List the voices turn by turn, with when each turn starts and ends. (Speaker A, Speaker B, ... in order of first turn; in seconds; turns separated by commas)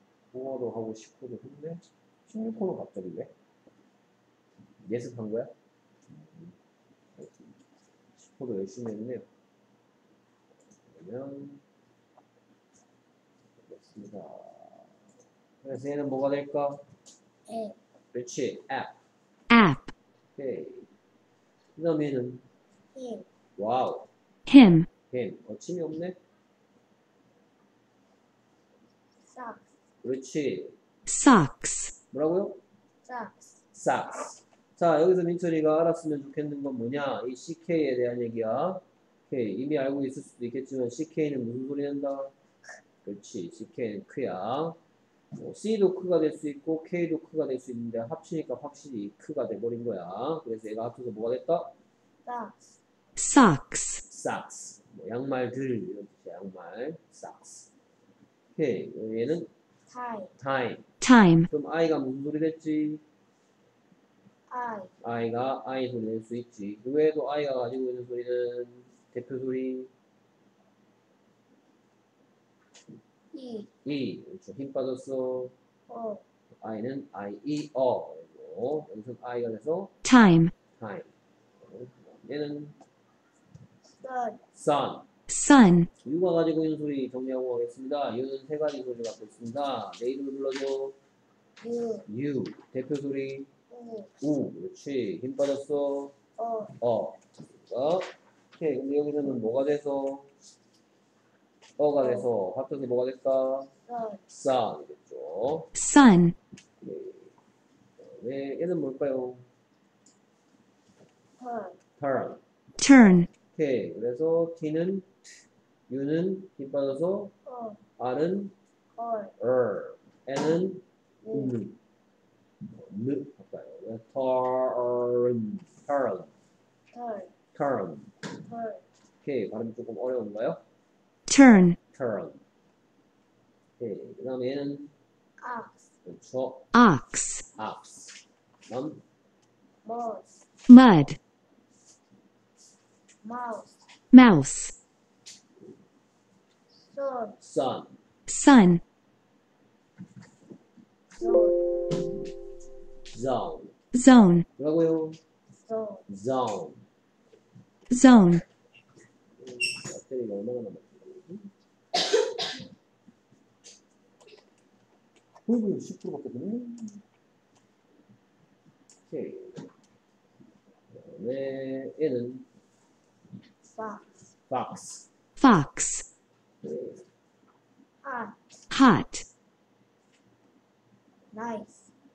Speaker A: 0.3-3.3, Speaker A: 4.8-5.5, Speaker A: 7.2-7.5, Speaker A: 8.2-9.3, Speaker A: 10.9-11.6, Speaker A: 13.7-14.9, Speaker A: 15.6-16.8, Speaker B: 17.5-17.8, Speaker A: 18.1-19.0, Speaker C: 19.5-19.9, Speaker A: 20.4-20.9, Speaker A: 21.8-22.4, Speaker B: 22.9-23.3, Speaker A: 23.6-24.1, Speaker C: 24.5-24.9, Speaker A: 25.1-26.2, Speaker B: 29.3-29.6, Speaker A: 30.0-30.8, Speaker C: 31.1-31.9, Speaker A: 32.1-32.6, Speaker B: 33.0-33.6, Speaker A: 33.7-42.3, Speaker A: 43.0-44.8, Speaker A: 45.4-51.7, Speaker B: 52.2-52.6, Speaker C: 53.2-54.0, Speaker A: 54.1-57.7, Speaker A: 58.5-59.5, Speaker B: 59.9-60.3, Speaker A: 60.4-60.9, Speaker C: 61.0-61.5, Speaker A: 61.5-63.0, Speaker B: 64.5-64.9, Speaker A: 65.0-69.9, Speaker B: 73.3-73.7, Speaker A: 73.8-75.5, Speaker B: 75.9-76.2, Speaker A: 76.6-80.0, Speaker C: 80.0-80.5, Speaker A: 80.7-82.8, Speaker B: 84.0-84.4, Speaker A: 84.5-85.1, Speaker C: 85.3-85.9, Speaker A: 86.0-91.0, Speaker B: 91.6-92.1, Speaker A: 92.1-93.5, Speaker B: 93.7-94.1, Speaker A: 94.2-96.2, Speaker B: 96.4-96.8, Speaker A: 96.8-100.3, Speaker A: 101.8-103.7, Speaker B: 102.0-102.3, Speaker B: 103.9-104.2, Speaker A: 104.3-105.7, Speaker C: 105.8-106.3, Speaker A: 106.8-107.3, Speaker A: 108.0-109.5, Speaker B: 111.4-111.8, Speaker A: 112.0-112.4, Speaker C: 112.8-113.3, Speaker A: 113.5-115.1, Speaker A: 115.9-117.3, Speaker B: 117.5-117.8, Speaker A: 118.0-118.5, Speaker B: 119.0-119.3, Speaker A: 119.4-121.8, Speaker B: 121.2-121.5, Speaker A: 122.7-126.3, Speaker B: 126.9-127.3, Speaker A: 127.5-128.2, Speaker B: 128.4-128.8, Speaker A: 129.2-130.6, Speaker C: 131.3-131.8, Speaker A: 131.9-132.4, Speaker A: 133.8-134.9, Speaker B: 135.4-135.8, Speaker A: 136.1-136.7, Speaker C: 136.7-137.5, Speaker A: 137.5-139.0, Speaker B: 139.8-140.4, Speaker C: 140.7-141.2, Speaker B: 143.2-143.8, Speaker C: 144.1-144.8, Speaker B: 146.8-147.4, Speaker A: 147.4-148.0, Speaker C: 148.3-148.8, Speaker B: 151.2-151.6, Speaker A: 153.1-153.8, Speaker C: 153.9-154.5, Speaker A: 154.6-155.2, Speaker B: 155.7-156.1, Speaker A: 156.1-156.8, Speaker C: 157.9-158.4, Speaker A: 159.4-161.5, Speaker A: 165.5-167.0, Speaker A: 169.1-169.7, Speaker A: 170.9-172.5, Speaker B: 173.8-174.1, Speaker A: 174.5-175.1, Speaker C: 175.4-176.1, Speaker A: 176.6-177.0, Speaker B: 178.0-178.4, Speaker C: 178.7-179.2, Speaker B: 181.3-181.9